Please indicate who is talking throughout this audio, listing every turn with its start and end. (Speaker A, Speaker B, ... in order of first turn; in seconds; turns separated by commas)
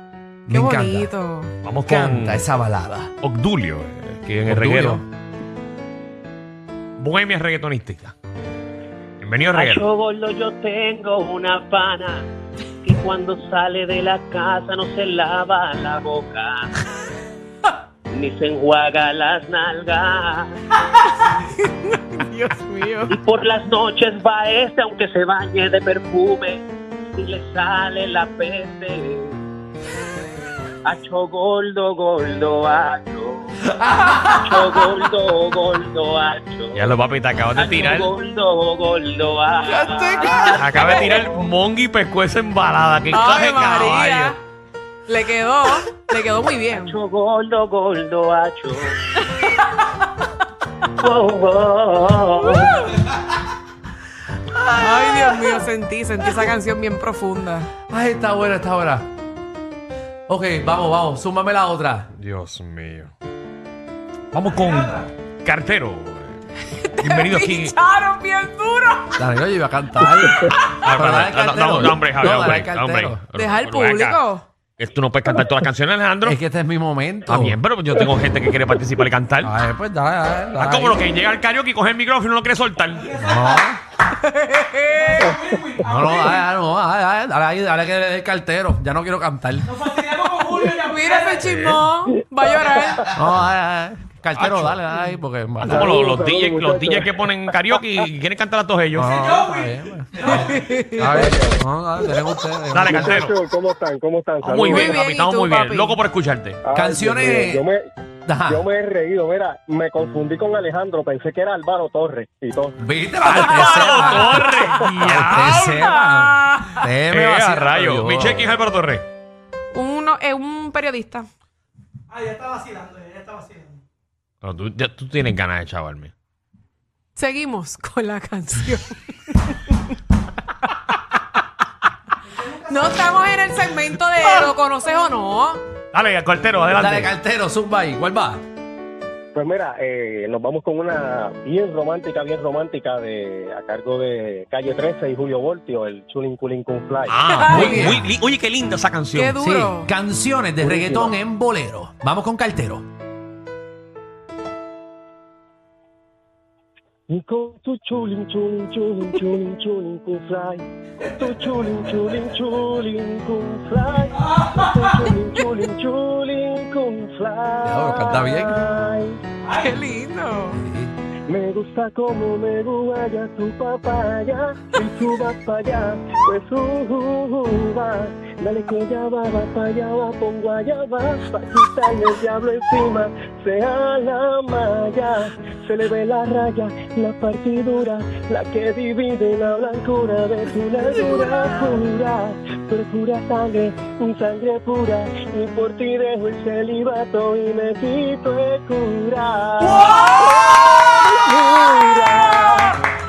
Speaker A: 0.5-1.1, Speaker B: 0.5-1.5, Speaker C: 1.6-2.5, Speaker A: 1.8-3.1, Speaker C: 3.2-5.0, Speaker A: 4.4-5.0, Speaker C: 7.0-8.1, Speaker C: 9.2-9.9, Speaker D: 9.5-12.3, Speaker D: 12.8-16.7, Speaker D: 18.1-20.6, Speaker B: 21.2-23.1, Speaker D: 23.1-29.4, Speaker D: 30.8-36.9, Speaker A: 33.7-34.8, Speaker C: 36.7-38.1, Speaker D: 37.6-41.1, Speaker A: 39.7-40.6, Speaker B: 40.3-41.0, Speaker C: 40.3-44.4, Speaker B: 43.1-44.4, Speaker B: 45.1-46.9, Speaker D: 46.7-49.2, Speaker D: 51.0-52.9, Speaker A: 54.5-55.6, Speaker B: 54.8-57.7, Speaker A: 57.9-59.1, Speaker A: 60.3-62.1, Speaker C: 62.2-63.1, Speaker C: 64.3-66.4, Speaker E: 64.5-64.9, Speaker B: 66.8-69.1, Speaker C: 67.0-67.8, Speaker A: 69.2-73.2, Speaker C: 70.8-74.2, Speaker B: 73.3-74.5, Speaker C: 74.8-76.4, Speaker A: 76.2-77.6, Speaker C: 77.2-79.5, Speaker A: 79.4-81.0, Speaker C: 80.5-83.3, Speaker E: 83.0-83.6, Speaker A: 83.2-83.8, Speaker B: 84.2-85.3, Speaker E: 84.9-86.4, Speaker A: 85.8-89.8, Speaker E: 89.7-91.6, Speaker B: 90.8-93.1, Speaker C: 91.2-91.9, Speaker A: 93.1-96.0, Speaker C: 94.4-94.8, Speaker F: 95.6-97.1, Speaker C: 95.6-99.3, Speaker A: 98.9-103.3, Speaker E: 99.1-100.5, Speaker B: 100.5-101.0, Speaker F: 101.0-101.6, Speaker C: 102.7-103.3, Speaker F: 102.8-105.0, Speaker C: 104.4-106.6, Speaker B: 104.6-106.0, Speaker F: 106.6-107.8, Speaker A: 106.7-107.7, Speaker A: 108.2-108.6, Speaker F: 108.5-112.8, Speaker A: 112.8-118.6, Speaker C: 113.2-115.9, Speaker B: 115.6-116.8, Speaker C: 117.1-119.1, Speaker B: 119.7-121.3, Speaker E: 122.1-123.8, Speaker C: 124.4-126.1, Speaker B: 127.2-129.7, Speaker E: 132.3-133.2, Speaker B: 132.7-135.6, Speaker C: 135.9-137.1, Speaker A: 136.7-138.4, Speaker F: 139.3-148.0, Speaker C: 147.1-149.4, Speaker B: 147.3-147.9, Speaker A: 147.4-148.1, Speaker B: 149.1-149.9, Speaker A: 149.4-152.9, Speaker F: 150.6-151.1, Speaker F: 157.1-169.2, Speaker A: 167.6-168.6, Speaker B: 169.6-170.6, Speaker A: 170.6-170.9, Speaker F: 171.3-202.8, Speaker A: 199.6-201.3